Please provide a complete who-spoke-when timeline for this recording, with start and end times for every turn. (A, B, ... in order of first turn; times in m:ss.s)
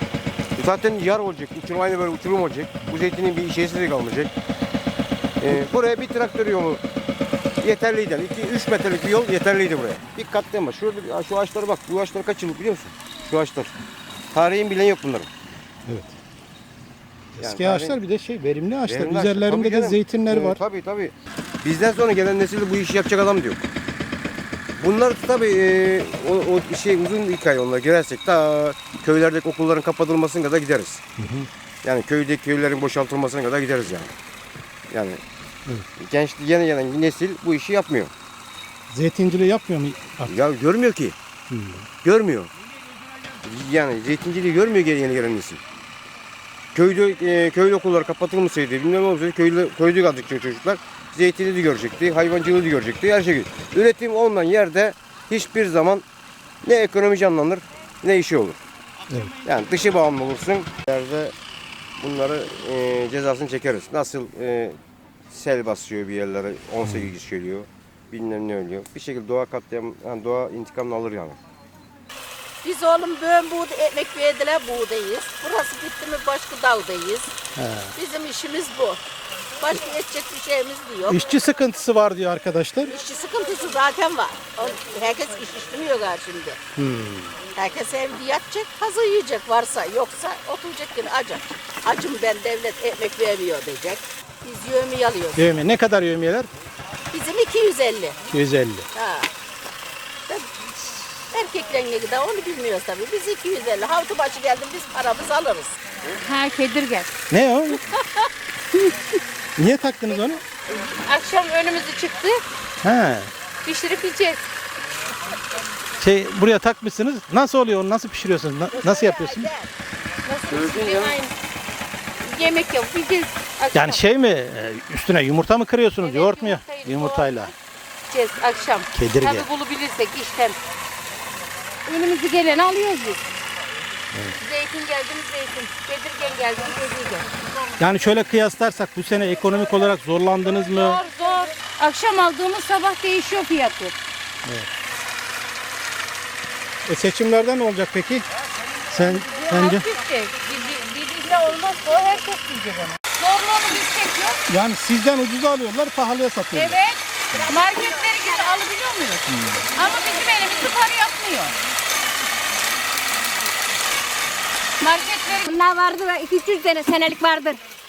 0:00.6-0:04.3 A
0:05.4-0:06.8 A
0:07.6-0:13.8 A
0:14.3-0:15.3 A
0:15.9-0:16.2 B
0:17.4-0:20.6 B
0:17.4-0:18.0 A
0:18.9-0:23.6 A
0:24.8-0:31.0 A
0:31.2-0:31.5 B
0:31.8-0:34.1 A
0:34.9-0:35.2 A
0:36.0-0:38.1 A
0:38.9-0:40.4 B
0:40.3-0:41.2 A
0:41.5-0:41.9 B
0:42.0-0:42.5 A
0:43.4-0:45.6 A
0:46.7-0:56.1 A
0:56.6-0:58.6 A
0:59.1-0:59.4 B
0:59.4-1:01.4 A
1:02.0-1:04.8 A
1:05.3-1:11.4 A
1:06.8-1:07.1 B
1:12.6-1:17.3 C
1:17.6-1:17.9 B
1:18.0-1:19.0 C
1:19.6-1:21.2 C
1:21.1-1:22.9 B
1:22.9-1:26.6 C
1:26.8-1:27.4 B
1:27.5-1:35.5 C
1:35.4-1:36.5 B
1:37.1-1:38.2 C
1:38.3-1:38.9 B
1:38.9-1:39.3 C
1:41.3-1:45.8 C
1:46.1-1:47.1 D
1:47.3-1:47.8 B
1:49.6-1:50.4 B
1:50.7-1:52.4 D
1:52.8-1:53.3 B
1:53.6-1:54.5 D
1:56.0-1:59.5 B
1:58.7-1:59.7 C
2:00.2-2:01.3 D
2:00.6-2:01.0 C
2:02.2-2:04.0 D
2:03.7-2:07.5 B
2:06.0-2:07.5 D
2:08.1-2:10.6 D
2:08.9-2:09.5 B
2:11.9-2:13.3 D
2:14.4-2:17.3 D
2:17.8-2:21.0 B
2:20.7-2:24.0 D
2:24.4-2:24.7 B
2:26.9-2:28.3 B
2:28.9-2:29.8 B
2:29.0-2:34.4 D
2:34.5-2:36.8 B
2:36.5-2:41.6 D
2:39.3-2:39.7 B
2:44.8-2:45.5 D
2:45.5-2:47.6 E